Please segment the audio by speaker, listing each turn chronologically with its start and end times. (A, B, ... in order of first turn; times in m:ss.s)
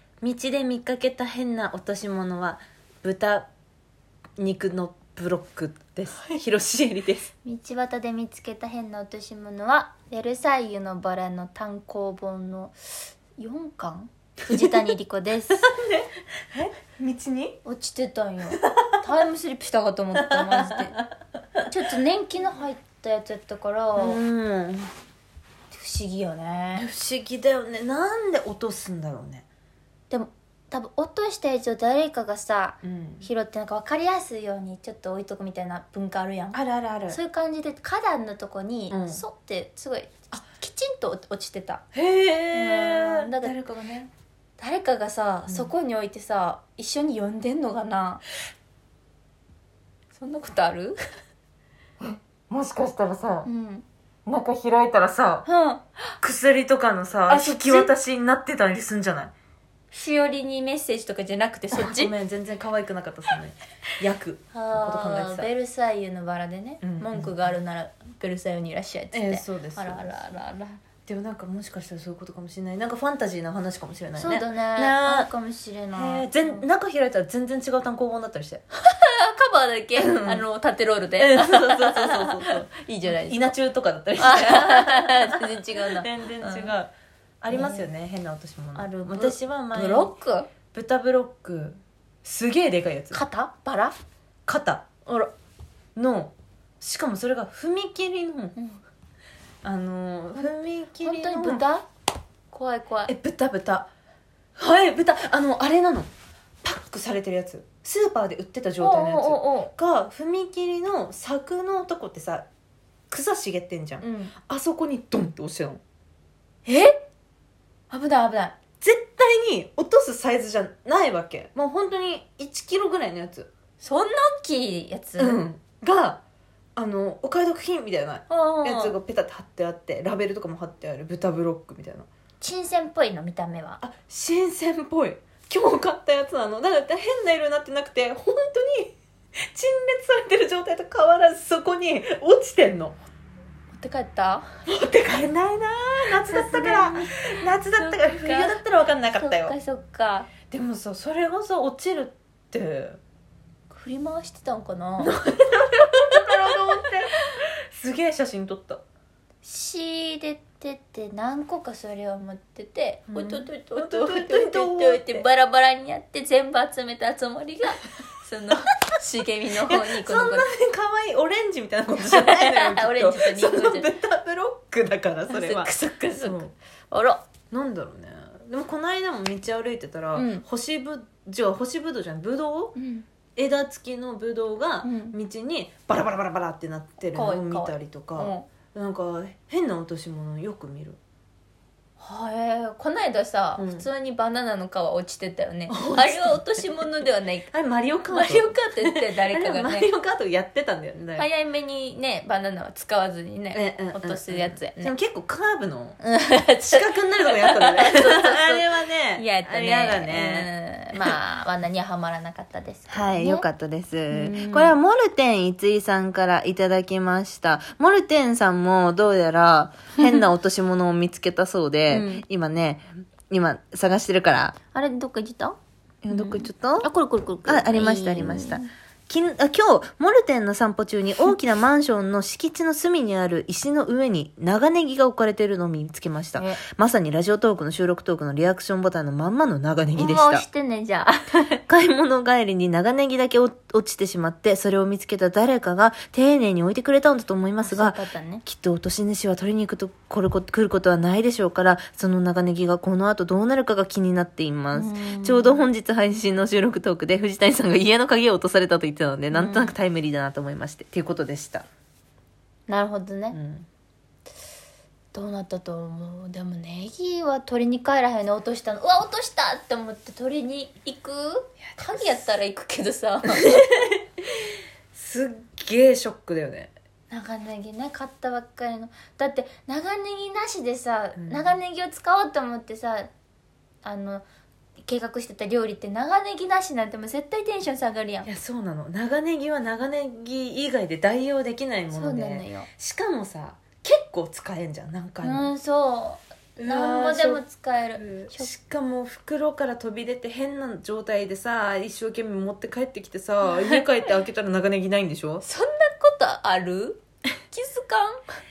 0:00.2-0:03.5 A
0:04.4-0:07.3 A
0:07.4-0:12.7 B
0:13.4-0:15.6 B
0:15.6-0:17.6 A
0:17.6-0:21.0 B
0:20.2-0:20.8 A
0:21.7-0:24.2 B
0:24.0-0:24.9 A
0:25.7-0:26.8 B
0:26.8-0:29.4 A
0:30.1-0:41.8 B
0:32.8-0:33.2 A
0:36.5-0:37.2 A
0:38.9-0:39.2 A
0:41.9-0:44.1 A
0:42.5-0:43.6 B
0:44.6-0:48.2 B
0:45.4-0:45.7 A
0:50.1-0:51.0 B
0:52.0-0:53.5 A
0:53.4-0:53.8 B
0:54.2-0:55.4 A
0:55.4-0:56.1 B
0:56.2-0:59.3 A
0:57.3-0:57.9 B
0:59.9-1:02.1 B
1:01.7-1:05.5 A
1:04.5-1:10.8 B
1:06.8-1:07.3 A
1:09.1-1:10.2 A
1:11.0-1:15.3 A
1:14.2-1:16.6 B
1:15.9-1:18.6 A
1:18.8-1:23.4 B
1:20.0-1:20.4 A
1:21.2-1:30.1 A
1:24.2-1:26.7 B
1:27.5-1:27.9 B
1:28.7-1:30.5 B
1:30.7-1:33.2 A
1:33.1-1:34.0 B
1:34.4-1:34.9 A
1:35.0-1:35.3 B
1:36.0-1:38.6 A
1:38.6-1:38.8 B
1:39.6-1:41.6 A
1:40.4-1:41.8 B
1:42.5-1:43.1 B
1:43.0-1:43.9 A
1:44.6-1:46.1 A
1:46.6-1:52.5 A
1:48.8-1:49.7 B
1:53.1-1:55.8 A
1:54.0-1:54.3 B
1:56.6-1:57.0 B
1:57.9-1:58.6 B
1:58.8-2:03.5 A
2:03.8-2:05.4 B
2:05.2-2:06.2 A
2:06.8-2:12.1 A
2:08.3-2:09.0 B
2:12.4-2:13.8 B
2:13.8-2:19.0 A
2:19.5-2:23.0 A
2:23.7-2:24.5 B
2:24.7-2:29.5 A
2:26.2-2:28.5 B
2:29.2-2:30.3 B
2:30.5-2:33.0 A
2:33.7-2:35.1 B
2:35.0-2:37.1 A
2:37.7-2:38.8 A
2:39.4-2:50.5 B
2:43.1-2:45.2 A
2:49.7-2:56.5 A
2:51.9-2:53.9 B
2:55.3-2:57.2 B
2:57.5-3:02.7 A
3:00.1-3:00.4 B
3:02.8-3:03.0 B
3:03.4-3:11.0 A
3:04.8-3:05.2 B
3:07.1-3:08.5 B
3:12.0-3:17.5 B
3:13.6-3:13.9 A
3:15.7-3:16.8 A
3:17.5-3:21.3 A
3:18.1-3:19.9 B
3:21.2-3:24.9 B
3:23.5-3:26.0 A
3:26.0-3:33.5 B
3:26.7-3:30.5 A
3:32.9-3:44.6 A
3:34.1-3:34.7 B
3:39.9-3:40.2 B
3:41.9-3:42.2 B
3:44.7-3:45.6 B
3:46.0-3:46.9 A
3:46.1-3:48.7 B
3:47.5-4:00.4 A
3:56.4-3:56.6 B
4:00.0-4:01.6 B
4:01.7-4:21.6 A
4:07.6-4:08.4 B
4:14.7-4:15.6 B
4:19.3-4:19.8 B
4:22.7-4:23.4 B
4:23.3-4:23.7 A
4:25.1-4:33.5 B
4:31.6-4:32.2 A
4:33.4-4:34.0 A
4:34.9-4:36.7 A
4:37.1-4:43.1 B
4:41.1-4:41.6 A
4:43.8-4:44.2 B
4:44.8-4:48.3 B
4:48.2-4:55.5 A
4:51.9-4:52.7 B
4:55.2-4:58.5 B
4:56.6-4:57.4 A
4:58.0-5:05.4 A
5:03.4-5:03.8 B
5:05.4-5:08.2 B